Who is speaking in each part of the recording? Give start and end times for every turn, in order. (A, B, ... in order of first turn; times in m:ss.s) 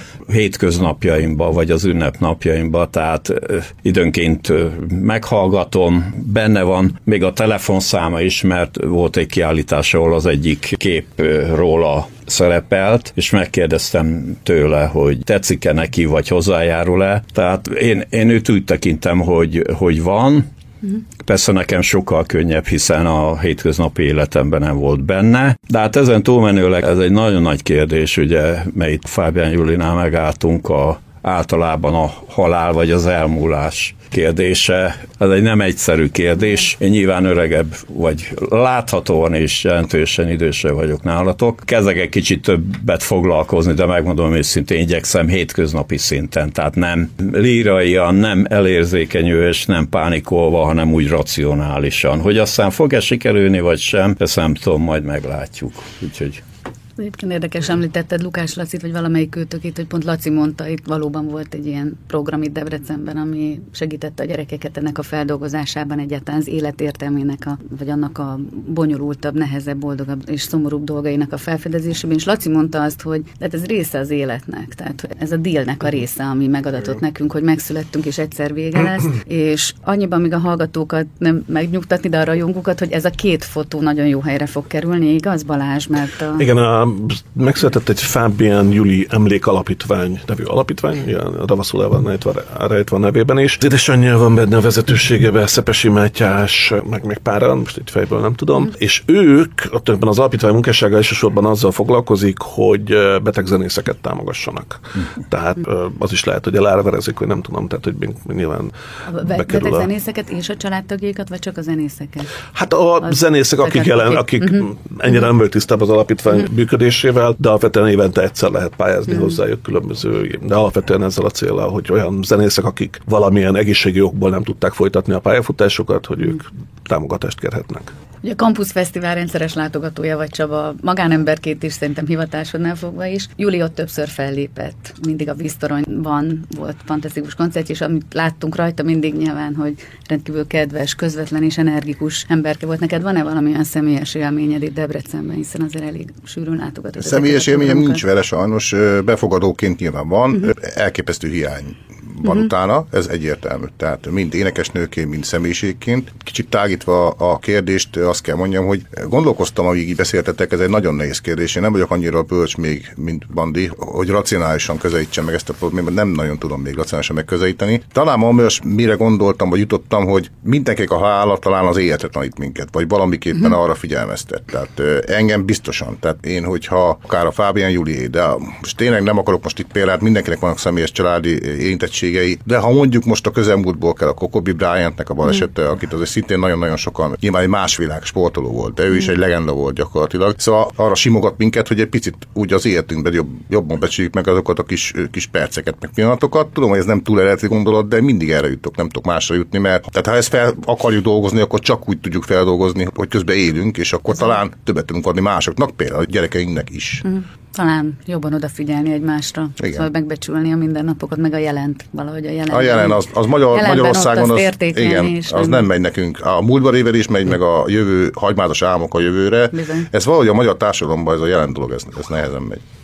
0:00.3-0:20.5 A
0:21.2-0:56.4 A
0:57.0-1:26.5 B
1:26.4-1:48.7 C
1:49.1-1:52.3 B
1:49.3-1:49.9 C
1:52.6-2:07.9 C
1:53.6-1:54.6 B
2:08.2-2:28.0 B
2:27.0-3:27.0 D
3:27.0-3:35.7 B
3:32.5-3:42.6 D
3:39.5-3:39.9 B